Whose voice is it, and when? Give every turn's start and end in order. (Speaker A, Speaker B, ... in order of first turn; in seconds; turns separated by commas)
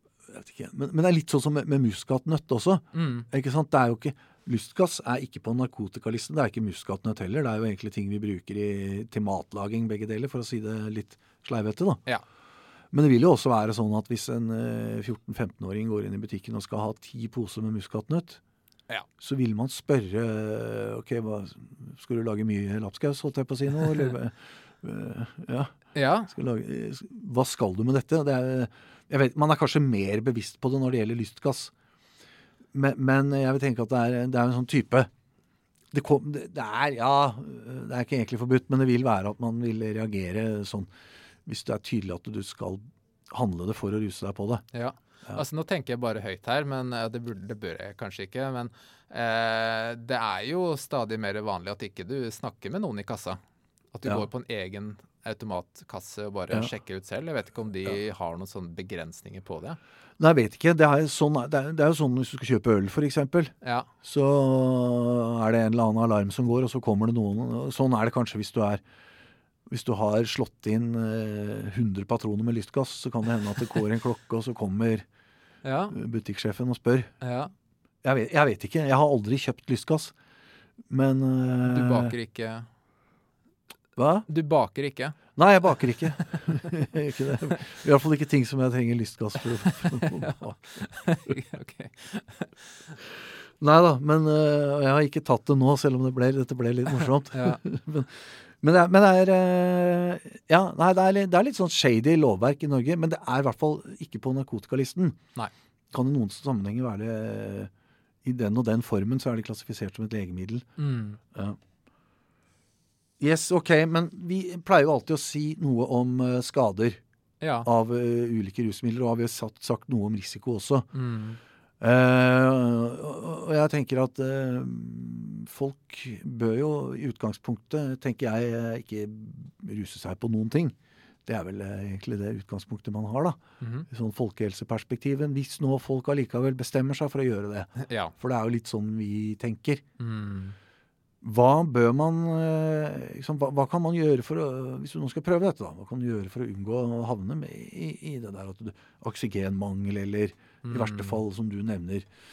Speaker A: 0.3-12.0, Speaker B: 2.9-3.3, Speaker A: 12.9-18.4, Speaker A: 19.2-25.7, Speaker B: 25.9-26.3, Speaker A: 26.3-31.7, Speaker A: 32.7-35.1, Speaker A: 35.9-40.9, Speaker A: 41.5-44.6, Speaker B: 44.7-53.4, Speaker B: 53.9-59.8, Speaker A: 60.2-63.5, Speaker B: 63.6-63.9, Speaker A: 64.0-68.8, Speaker A: 69.7-75.0, Speaker B: 75.6-76.0, Speaker A: 75.9-77.1, Speaker B: 77.2-77.5, Speaker A: 78.0-80.1, Speaker A: 80.9-82.2, Speaker B: 81.6-82.7, Speaker A: 84.0-84.3, Speaker B: 84.3-85.2, Speaker A: 85.4-90.9, Speaker B: 86.0-86.6, Speaker B: 89.7-90.2, Speaker B: 90.8-93.0, Speaker A: 93.6-105.2, Speaker B: 97.3-97.6, Speaker A: 105.9-107.7, Speaker A: 108.2-110.7, Speaker B: 110.8-111.2, Speaker A: 113.2-117.0, Speaker B: 117.4-117.7, Speaker A: 117.7-120.9, Speaker B: 120.9-121.4, Speaker A: 121.8-130.8, Speaker A: 131.3-139.8, Speaker B: 133.6-133.9, Speaker B: 137.8-138.1, Speaker B: 140.0-140.6, Speaker A: 141.2-152.1, Speaker B: 150.6-151.2